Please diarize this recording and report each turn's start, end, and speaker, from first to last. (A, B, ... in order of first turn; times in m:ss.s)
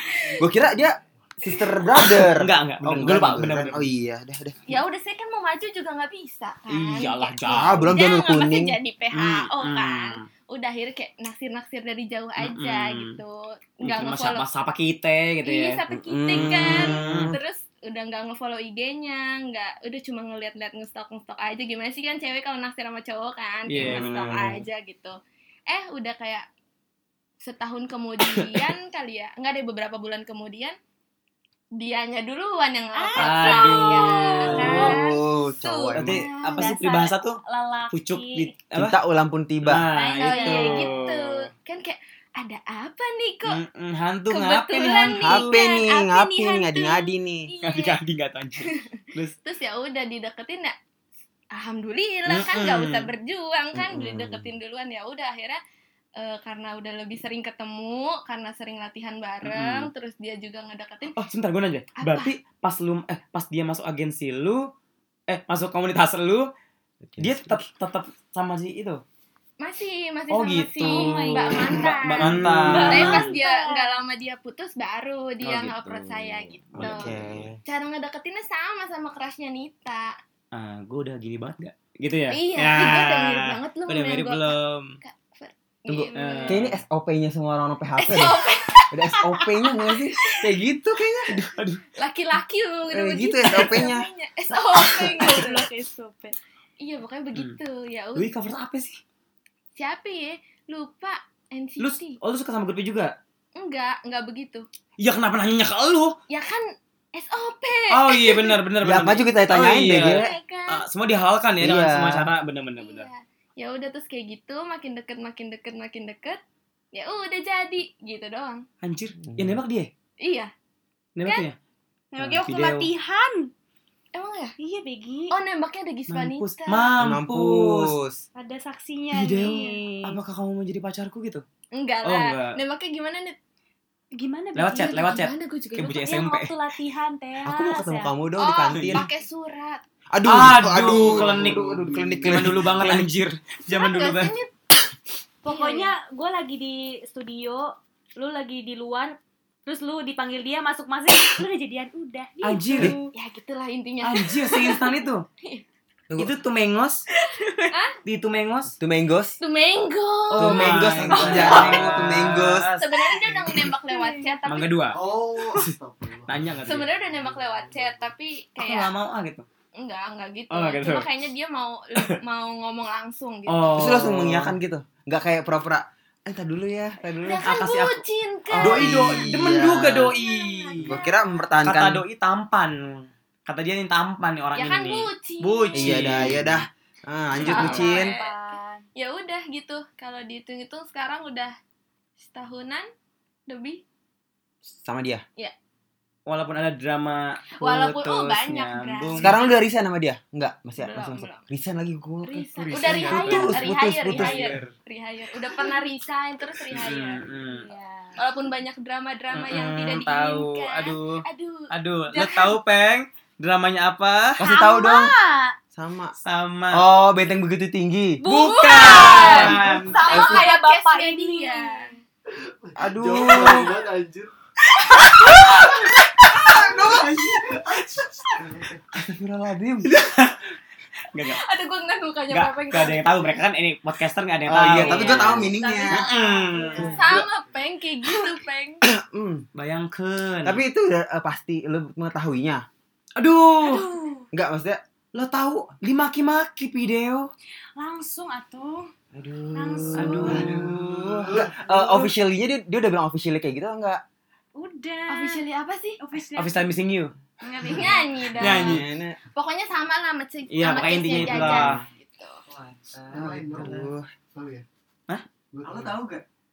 0:00.4-0:04.6 A
0:02.0-0:03.9 B
0:04.7-0:14.4 C
0:06.7-0:08.0 B
0:07.5-0:08.8 A
0:09.1-0:10.2 B
0:12.4-0:13.2 B
0:13.8-0:17.4 B
0:15.4-0:25.2 C
0:15.9-0:17.4 A
0:23.7-0:24.6 B
0:23.8-0:24.6 A
0:25.7-0:26.4 C
0:27.4-0:30.8 C
0:28.3-0:28.7 B
0:31.7-0:36.7 C
0:32.9-0:35.2 D
0:33.2-0:35.0 B
0:34.6-0:36.2 A
0:35.9-0:37.4 B
0:36.5-0:38.5 D
0:37.9-0:39.0 B
0:38.7-0:39.8 A
0:39.6-0:41.5 B
0:39.9-0:40.9 D
0:40.2-0:43.6 C
0:43.4-0:45.6 B
0:44.3-0:48.0 C
0:45.1-0:47.5 A
0:47.6-0:49.3 B
0:49.4-0:50.7 C
0:51.5-0:55.6 C
0:52.2-0:53.1 B
0:53.7-0:54.5 A
0:56.2-1:01.2 C
0:59.4-0:59.9 B
1:01.2-1:04.6 B
1:02.0-1:02.3 C
1:05.3-1:06.5 B
1:07.0-1:07.6 A
1:07.2-1:09.0 B
1:09.6-1:20.1 C
1:10.3-1:13.3 B
1:10.8-1:11.8 D
1:12.2-1:13.0 A
1:12.7-1:13.9 D
1:15.4-1:17.5 B
1:16.8-1:17.6 A
1:20.5-1:25.0 B
1:22.3-1:26.6 C
1:25.9-1:28.4 A
1:26.1-1:26.5 D
1:26.1-1:26.8 B
1:28.0-1:30.4 C
1:28.9-1:31.4 A
1:31.3-1:31.8 B
1:32.0-1:35.7 C
1:32.9-1:34.1 A
1:35.0-1:36.3 D
1:36.8-1:38.3 C
1:38.2-1:39.0 B
1:39.8-1:42.2 C
1:41.8-1:43.1 B
1:43.6-1:44.7 C
1:45.0-1:46.2 B
1:46.3-1:48.6 C
1:47.9-1:53.1 B
1:48.8-1:50.3 A
1:49.9-1:50.8 C
1:51.6-1:52.3 A
1:52.8-1:56.4 C
1:56.9-1:58.6 C
1:58.8-1:59.9 B
1:59.3-1:59.6 A
2:00.2-2:00.5 C
2:01.2-2:01.6 B
2:02.1-2:03.5 D
2:02.2-2:02.9 B
2:04.1-2:04.5 C
2:04.6-2:05.3 D
2:05.3-2:07.0 C
2:06.1-2:07.9 B
2:07.0-2:08.2 A
2:08.4-2:10.2 D
2:09.1-2:11.4 B
2:11.7-2:13.4 C
2:12.0-2:12.6 B
2:14.1-2:15.1 D
2:14.6-2:16.5 B
2:14.7-2:16.0 C
2:15.9-2:18.1 D
2:17.4-2:19.0 A
2:18.4-2:19.8 C
2:18.7-2:19.0 B
2:20.1-2:23.1 A
2:20.2-2:24.3 B
2:20.9-2:22.5 E
2:23.7-2:24.5 C
2:25.4-2:33.1 D
2:25.4-2:25.9 C
2:32.4-2:33.0 B
2:33.1-2:35.6 C
2:34.0-2:35.2 B
2:36.2-2:37.0 B
2:37.7-2:38.0 C
2:38.0-2:38.7 B
2:38.8-2:39.4 A
2:39.4-2:41.9 C
2:40.3-2:43.6 B
2:40.4-2:42.7 A
2:42.8-2:44.8 C
2:43.8-2:44.4 D
2:44.4-2:45.7 B
2:44.9-2:48.1 E
2:46.3-2:46.9 B
2:46.6-2:48.9 C
2:48.6-2:49.4 B
2:49.8-2:54.0 C
2:50.5-2:51.1 B
2:53.5-2:54.6 B
2:53.7-2:57.5 A
2:57.2-2:59.6 C
2:57.3-2:58.0 B
2:58.5-3:00.1 A
2:58.6-3:01.0 B
3:00.1-3:01.2 D
3:00.8-3:02.0 A
3:01.6-3:06.6 B
3:04.6-3:06.1 C
3:05.7-3:08.2 A
3:07.4-3:07.9 B
3:07.4-3:11.6 C
3:07.4-3:08.8 D
3:12.2-3:12.9 C
3:13.5-3:13.8 C
3:14.7-3:15.2 A
3:16.3-3:19.3 B
3:17.6-3:19.6 C
3:19.2-3:24.6 A
3:20.8-3:21.5 C
3:22.2-3:27.2 C
3:22.6-3:24.7 B
3:26.7-3:27.7 B
3:27.3-3:28.2 D
3:28.2-3:32.5 C
3:29.3-3:34.4 B
3:34.4-3:35.1 A
3:34.4-3:35.5 D
3:35.7-3:36.1 A
3:36.2-3:36.8 B
3:36.7-3:38.2 A
3:38.2-3:41.9 D
3:38.2-3:40.0 B
3:38.3-3:41.9 C
3:40.1-3:40.4 A
3:42.3-3:44.3 E
3:42.8-3:43.7 A
3:45.2-3:45.5 B
3:46.4-3:47.6 A
3:46.6-3:46.9 E
3:48.0-3:48.2 B
3:48.4-3:48.8 E
3:48.9-3:49.9 A
3:49.8-3:50.5 B
3:51.1-3:51.4 B
3:51.3-3:53.4 C
3:52.3-3:57.1 B
3:54.5-3:56.1 A
3:54.8-3:58.8 C
3:56.4-3:57.0 D
3:56.8-3:57.2 A
3:58.8-3:59.4 A
3:59.5-4:00.6 B
4:00.4-4:02.6 A
4:03.2-4:03.9 B
4:03.6-4:04.2 D
4:04.3-4:04.8 A
4:05.1-4:07.3 B
4:07.8-4:08.9 D
4:09.1-4:14.0 A
4:09.5-4:10.4 D
4:09.9-4:12.1 B
4:10.3-4:11.5 E
4:14.5-4:15.4 D
4:15.1-4:16.0 C
4:16.0-4:16.7 D
4:16.3-4:17.1 B
4:17.4-4:18.5 D
4:17.6-4:22.4 C
4:18.4-4:18.8 B
4:18.4-4:19.2 A
4:20.5-4:21.8 B
4:21.1-4:21.8 A
4:22.9-4:24.6 E
4:23.4-4:24.1 A
4:25.1-4:26.1 B
4:25.5-4:26.0 E